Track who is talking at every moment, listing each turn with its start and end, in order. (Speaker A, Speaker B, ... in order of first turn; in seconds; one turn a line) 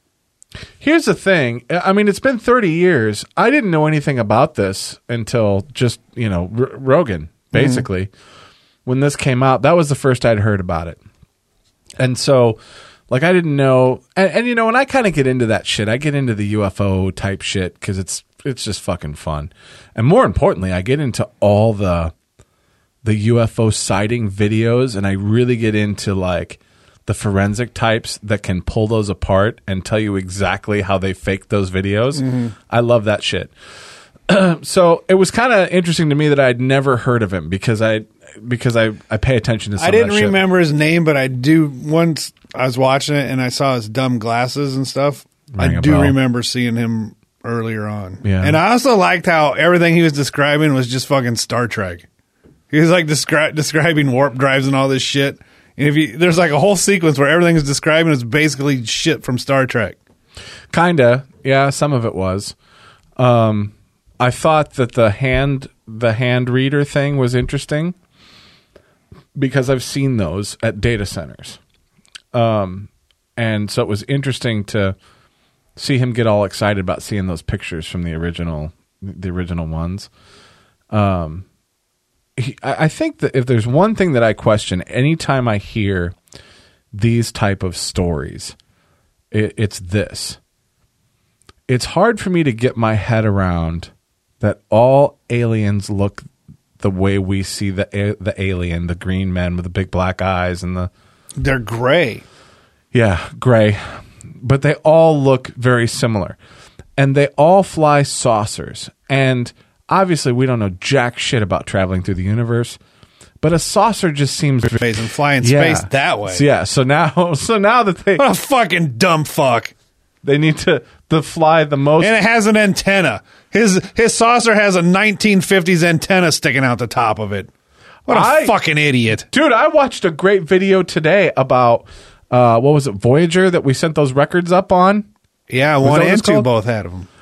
Speaker A: 0.8-8.1
Speaker B: 7.5-7.8
Speaker A: 8.8-11.0
Speaker A: 12.0-12.6
Speaker A: 13.1-22.1
Speaker A: 23.0-33.5
Speaker B: 32.1-32.5
Speaker A: 34.3-40.5
Speaker B: 39.8-52.0
Speaker A: 45.5-46.1
Speaker A: 48.2-48.6
Speaker B: 52.7-60.0
Speaker A: 60.7-62.5
Speaker A: 63.2-67.9
Speaker A: 69.3-71.6
Speaker A: 72.3-74.9
Speaker A: 75.8-80.1
Speaker A: 80.9-81.5
Speaker A: 82.4-86.2
Speaker A: 86.9-88.5
Speaker A: 89.3-90.4
Speaker A: 91.7-96.2
Speaker A: 96.8-100.9
Speaker B: 101.4-102.2
Speaker A: 102.9-106.4
Speaker A: 107.0-112.8
Speaker A: 113.4-118.2
Speaker B: 114.6-116.4
Speaker B: 118.2-119.7
Speaker A: 120.2-122.2
Speaker B: 122.0-127.5
Speaker A: 128.1-128.6
Speaker B: 128.1-129.3
Speaker A: 129.3-135.1
Speaker B: 135.5-137.1
Speaker A: 135.8-136.5